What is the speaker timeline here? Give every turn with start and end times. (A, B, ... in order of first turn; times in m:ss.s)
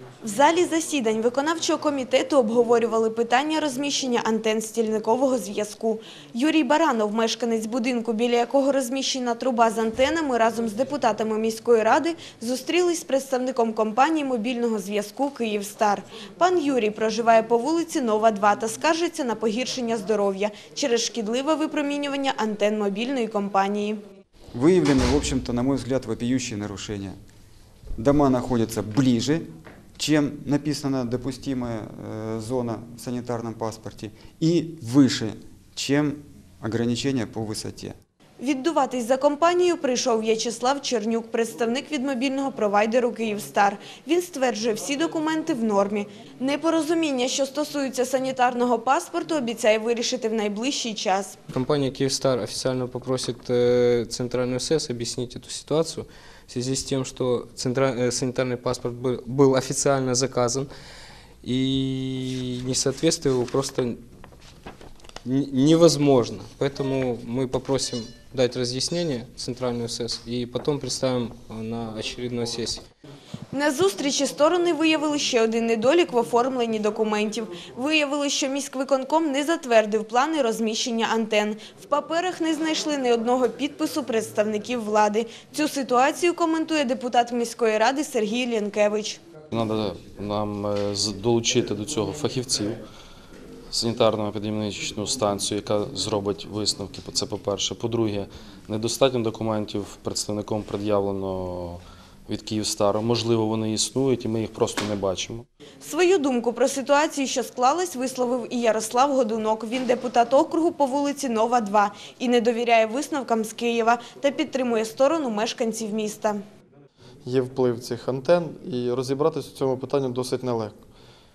0:00.2-0:24.0 A
0:24.5-0:27.2 B
0:28.0-0:38.0 B
0:38.4-0:51.4 A
0:51.5-1:00.7 C
1:01.4-1:04.0 C
1:05.2-1:12.8 C
1:13.5-1:29.2 A
1:29.5-1:32.7 D
1:33.7-1:45.4 D
1:45.8-1:56.4 A
1:57.2-2:00.8 E